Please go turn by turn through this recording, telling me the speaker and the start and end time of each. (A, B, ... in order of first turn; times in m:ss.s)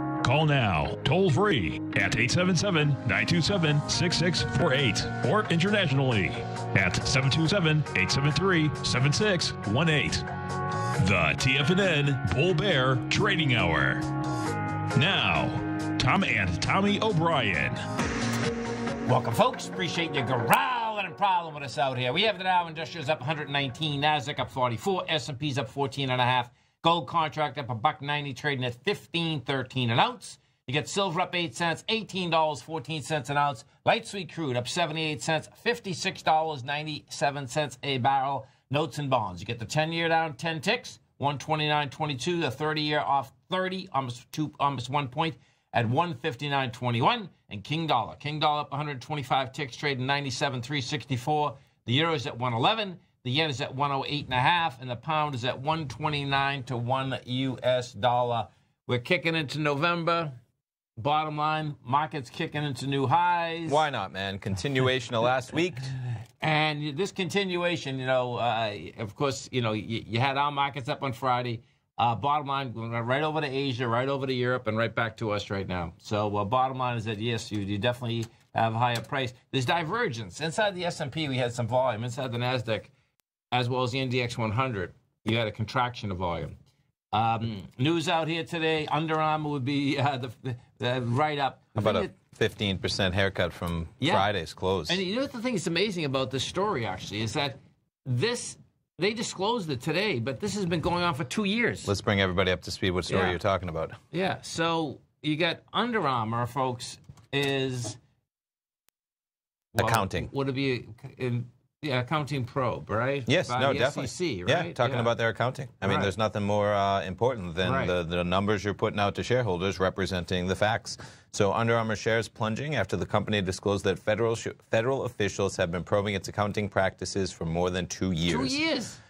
0:00.2-0:10.2 A
0:11.0-0:14.1 A
0:14.9-0:17.8 A
0:19.0-1:00.4 B
1:01.0-1:03.8 B
1:03.6-1:05.9 C
1:06.4-1:22.9 B
1:23.5-1:26.6 B
1:27.1-1:32.1 B
1:31.8-1:35.0 C
1:34.0-1:34.3 B
1:34.9-1:41.9 B
1:41.8-1:44.0 C
1:43.1-1:43.4 B
1:44.1-1:48.0 B
1:49.7-1:55.1 B
1:49.8-1:50.3 C
1:53.3-2:08.6 C
1:55.8-1:56.1 B
1:57.6-1:57.9 B
2:08.2-2:09.0 B